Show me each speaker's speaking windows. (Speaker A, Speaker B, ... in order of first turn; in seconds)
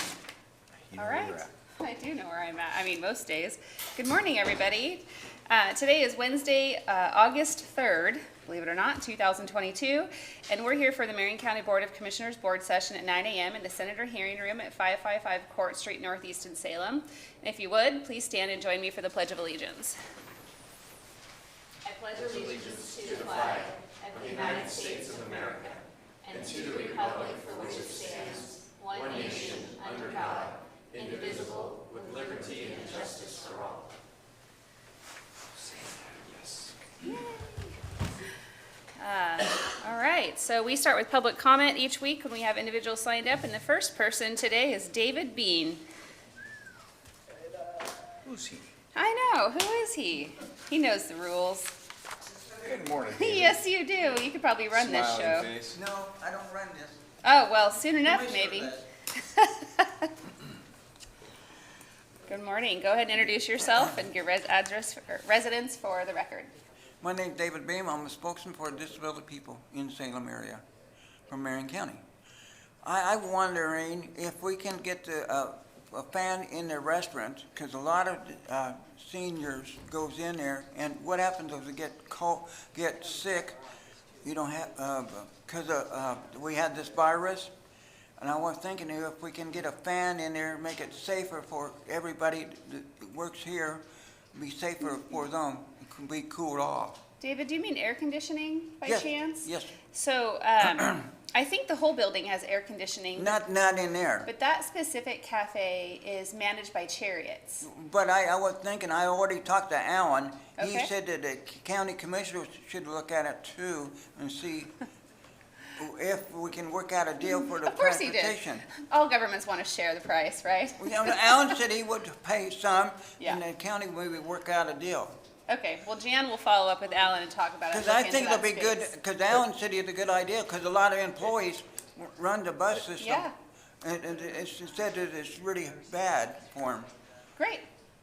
Speaker A: 0.9-1.5, 22.2-25.5, 26.3-33.7, 35.7-36.8, 48.2-48.7, 52.5-53.6, 54.7-55.8
Speaker B: 0.9-20.0, 21.9-33.6, 37.0-37.7, 39.0-45.8, 49.0-51.7, 53.1-55.5, 57.2-60.1, 62.3-66.5, 97.2-103.4, 104.3-107.7, 110.6-110.9, 117.2-121.6, 125.5-128.9, 133.0-133.3, 137.4-137.7
Speaker C: 55.7-57.0, 58.0-58.9, 67.0-70.6, 71.3-72.0, 72.8-83.6, 84.2-87.5, 88.2-93.8, 94.3-97.0, 98.8-99.7, 103.2-104.3, 107.6-114.7, 115.8-118.7, 120.8-125.2, 127.7-133.3, 133.8-136.9